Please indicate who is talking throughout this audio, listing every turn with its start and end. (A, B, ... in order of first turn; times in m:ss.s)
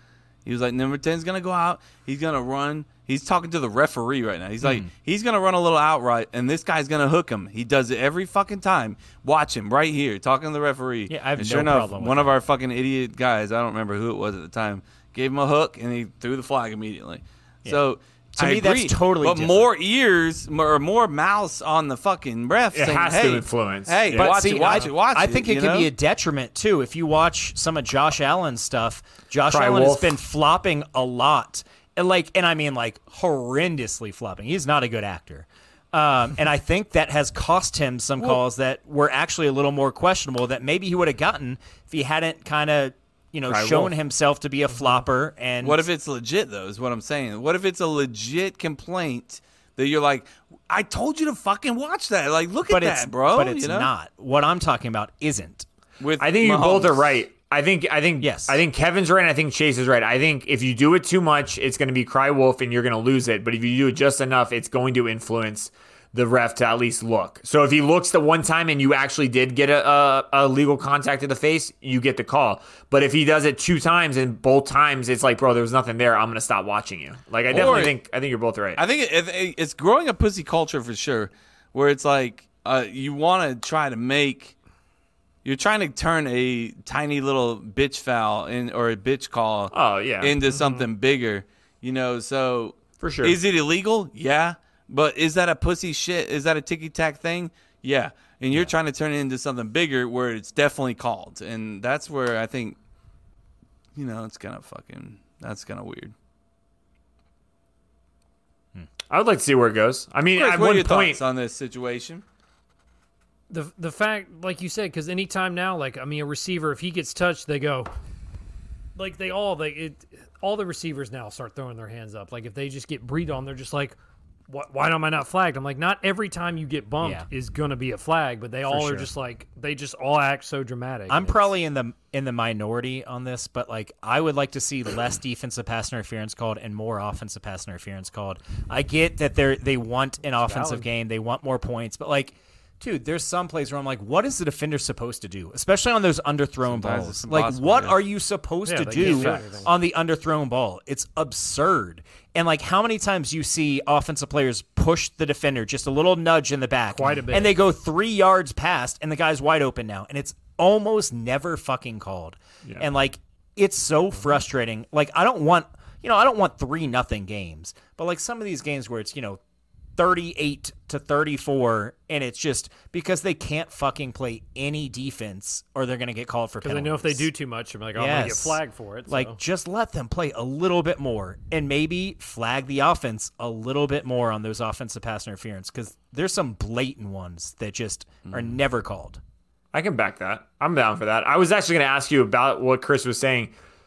0:00.4-0:25.9 A
0:04.6-0:04.9 B
0:11.1-0:12.4 B
0:18.4-0:19.7 B
0:22.7-0:24.6 C
0:24.1-0:45.8 B
0:24.6-0:24.9 D
0:29.5-0:30.2 C
0:43.5-0:43.9 C
0:45.6-0:53.9 A
0:52.7-0:55.7 B
0:56.0-0:57.2 A
0:56.2-1:18.8 C
0:58.2-0:58.6 B
1:17.5-1:18.0 A
1:18.8-1:24.5 A
1:25.4-1:42.8 A
1:29.7-1:30.3 C
1:30.5-1:30.9 D
1:33.0-1:33.4 C
1:44.0-1:46.1 A
1:49.1-1:51.2 C
1:50.3-1:52.2 A
1:53.5-1:57.9 D
1:59.0-2:04.0 D
2:04.5-2:11.5 D
2:07.0-2:07.3 B
2:08.7-2:09.1 B
2:11.1-2:49.4 B
2:20.4-2:20.9 D
2:26.6-2:28.0 A
2:28.7-2:29.7 D
2:29.0-2:29.5 A
2:36.9-2:37.6 D
2:50.0-2:57.3 B
2:56.6-2:59.4 D
2:58.0-3:09.2 B
3:08.3-3:08.6 A
3:09.7-3:13.5 C